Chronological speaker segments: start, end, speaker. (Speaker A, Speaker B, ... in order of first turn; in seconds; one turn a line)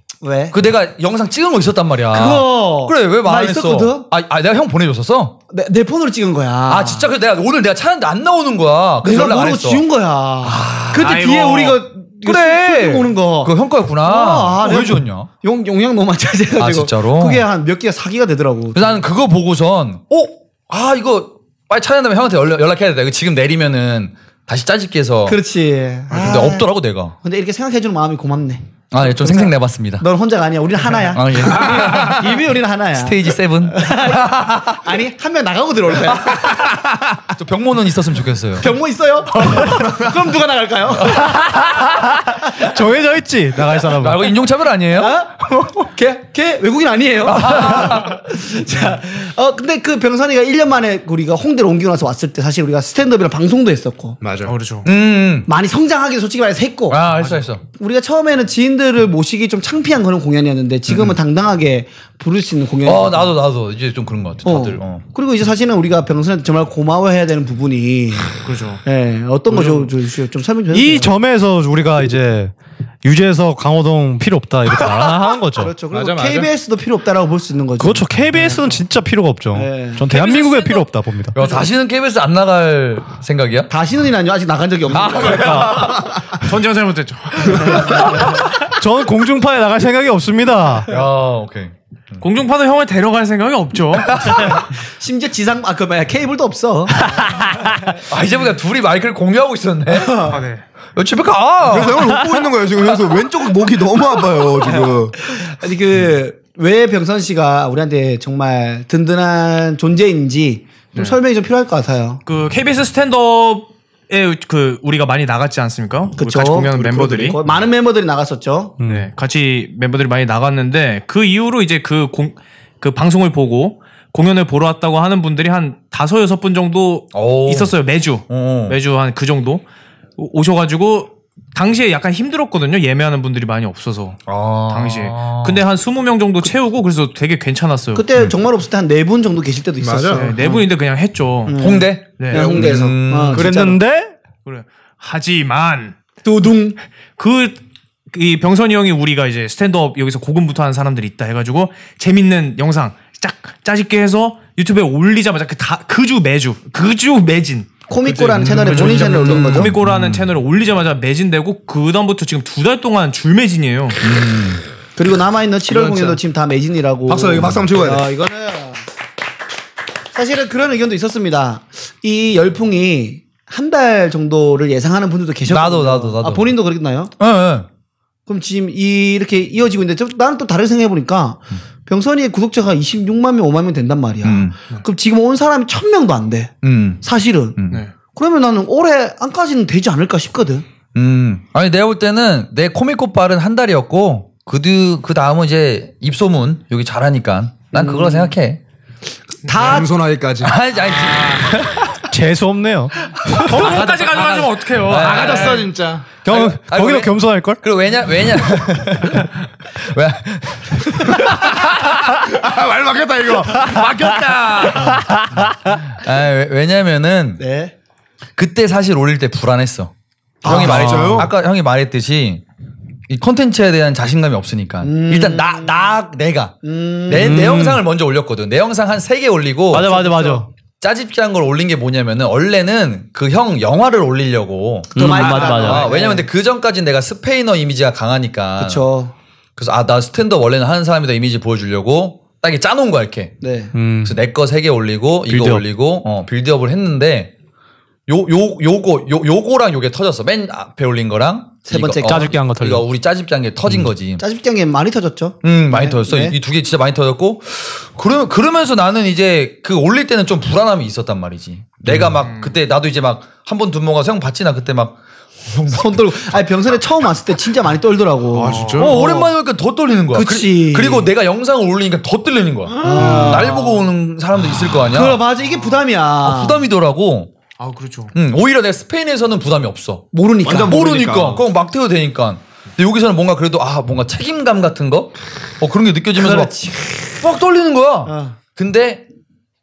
Speaker A: 0.2-0.6
Speaker B: 0.5-5.4
Speaker A: 2.1-4.1
Speaker A: 5.5-7.1
Speaker B: 6.7-9.8
Speaker A: 9.0-19.0
Speaker B: 10.4-11.1
Speaker C: 10.9-11.8
Speaker B: 12.2-15.3
Speaker B: 16.6-17.4
Speaker B: 18.7-25.4
Speaker A: 25.3-36.7
Speaker B: 26.1-27.2
Speaker B: 28.9-30.1
Speaker B: 31.1-32.4
Speaker B: 33.0-34.8
Speaker B: 37.3-38.7
Speaker A: 38.6-41.8
Speaker D: 41.3-44.4
Speaker B: 43.9-45.1
Speaker A: 45.0-54.2
Speaker B: 47.2-48.2
Speaker E: 54.2-54.6
Speaker C: 54.5-54.9
Speaker B: 54.9-55.5
Speaker A: 55.5-57.0
Speaker B: 56.9-57.6
Speaker A: 57.7-63.3
Speaker B: 62.9-65.0
Speaker A: 64.4-71.1
Speaker C: 68.4-68.8
Speaker C: 69.5-69.9
Speaker D: 70.7-75.7
Speaker A: 75.5-78.8
Speaker E: 75.9-76.5
Speaker D: 77.8-81.4
Speaker A: 79.5-80.0
Speaker C: 80.1-81.6
Speaker B: 81.3-83.7
Speaker A: 83.7-85.7
Speaker B: 84.9-86.1
Speaker D: 85.3-85.9
Speaker C: 86.3-88.1
Speaker A: 87.6-88.1
Speaker B: 88.0-88.2
Speaker D: 88.6-90.9
Speaker B: 90.9-92.2
Speaker C: 92.2-94.4
Speaker B: 94.0-94.6
Speaker A: 94.4-97.8
Speaker B: 98.1-100.4
Speaker A: 99.9-100.4
Speaker C: 100.3-100.6
Speaker B: 101.0-102.1
Speaker E: 101.7-105.2
Speaker A: 105.2-112.2
Speaker C: 112.3-117.4
Speaker A: 116.2-118.8
Speaker D: 118.8-119.1
Speaker C: 118.8-129.7
Speaker B: 127.1-127.7
Speaker B: 128.3-128.8
Speaker C: 130.2-138.1
Speaker B: 134.3-135.6
Speaker A: 137.9-140.7
Speaker E: 139.8-140.4
Speaker C: 140.1-141.6
Speaker A: 141.5-143.8
Speaker B: 141.6-143.5
Speaker C: 142.2-142.5
Speaker D: 143.3-144.1
Speaker C: 144.4-146.0
Speaker A: 146.2-146.8
Speaker C: 147.2-147.6
Speaker C: 148.1-164.0
Speaker A: 157.9-159.8
Speaker E: 158.8-159.2
Speaker B: 158.9-160.3
Speaker B: 164.0-164.6
Speaker A: 165.0-168.8
Speaker E: 165.7-166.2
Speaker E: 167.1-168.1
Speaker A: 170.1-177.1
Speaker B: 175.5-176.6
Speaker B: 177.2-177.7
Speaker A: 178.3-187.6
Speaker B: 184.2-184.6
Speaker B: 186.6-187.0
Speaker B: 187.6-187.8
Speaker A: 188.1-190.6
Speaker B: 190.9-198.6
Speaker A: 197.7-198.3
Speaker A: 199.4-199.9
Speaker E: 199.5-200.6
Speaker B: 200.4-201.9
Speaker C: 200.9-201.5
Speaker D: 202.1-203.6
Speaker C: 203.4-205.7
Speaker E: 203.6-206.2
Speaker B: 204.8-205.7
Speaker D: 206.2-207.6
Speaker B: 206.3-211.6
Speaker E: 211.3-215.2
Speaker D: 214.8-215.7
Speaker B: 216.0-217.4
Speaker A: 217.4-217.7
Speaker B: 218.4-219.9
Speaker A: 220.4-221.3
Speaker B: 220.4-222.4
Speaker E: 220.5-221.3
Speaker B: 223.1-229.9
Speaker A: 224.8-225.9
Speaker A: 226.6-227.5
Speaker D: 227.1-227.8
Speaker D: 229.7-230.5
Speaker A: 229.7-230.5
Speaker B: 230.8-238.9
Speaker A: 234.9-236.3
Speaker D: 235.0-235.9
Speaker A: 238.6-239.1
Speaker B: 239.6-243.4
Speaker A: 243.4-243.7
Speaker D: 243.7-244.2
Speaker B: 244.0-247.3
Speaker D: 245.3-245.7
Speaker B: 248.1-254.2
Speaker A: 251.7-252.4
Speaker D: 252.0-252.9
Speaker A: 254.2-256.4
Speaker B: 255.4-266.1
Speaker D: 261.9-262.2
Speaker C: 262.2-262.6
Speaker A: 265.7-269.3
Speaker C: 268.4-269.0
Speaker E: 268.5-268.8
Speaker B: 268.8-275.2
Speaker A: 270.1-271.1
Speaker A: 272.8-273.9
Speaker A: 274.8-276.6
Speaker B: 276.2-277.3
Speaker C: 277.6-278.1
Speaker B: 278.1-280.1
Speaker A: 280.1-280.8
Speaker E: 280.4-281.4
Speaker B: 280.7-286.5
Speaker A: 286.2-287.3
Speaker B: 287.2-289.1
Speaker A: 288.1-288.4